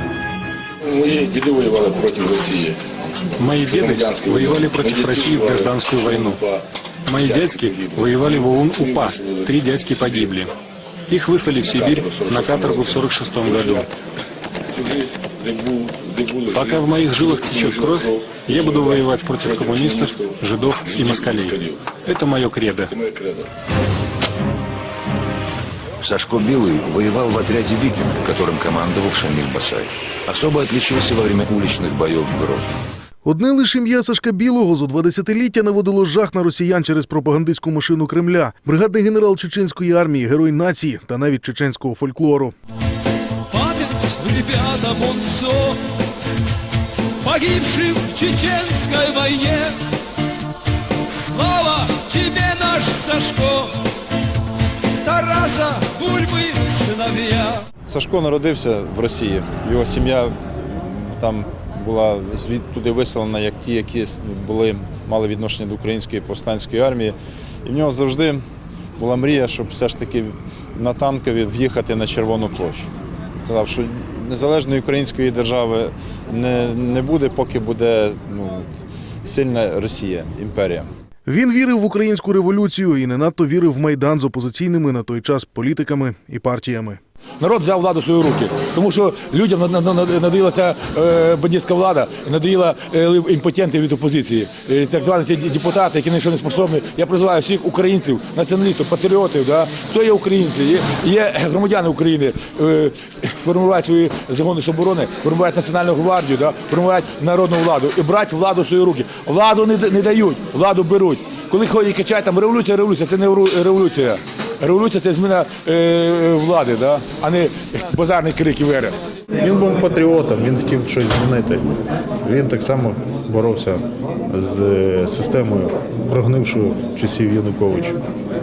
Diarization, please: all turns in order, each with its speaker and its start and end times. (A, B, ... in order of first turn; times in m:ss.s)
0:00.9-0:02.8 A
0:03.4-0:06.4 B
0:04.1-0:05.4 A
0:07.0-0:10.5 B
0:11.1-0:13.9 B
0:15.5-0:16.5 A
0:16.4-0:22.9 B
0:21.6-0:22.0 A
0:23.0-0:23.4 A
0:26.0-0:32.6 C
0:33.2-0:42.5 D
0:43.5-0:45.8 E
0:47.2-0:49.7 E
0:51.2-0:53.7 E
0:55.0-0:57.6 E
0:57.8-1:08.4 F
1:09.0-1:12.9 F
1:13.4-1:18.6 F
1:19.2-1:20.9 F
1:21.2-1:27.0 D
1:27.4-1:59.0 G
1:59.4-2:01.6 H
2:02.2-2:08.0 H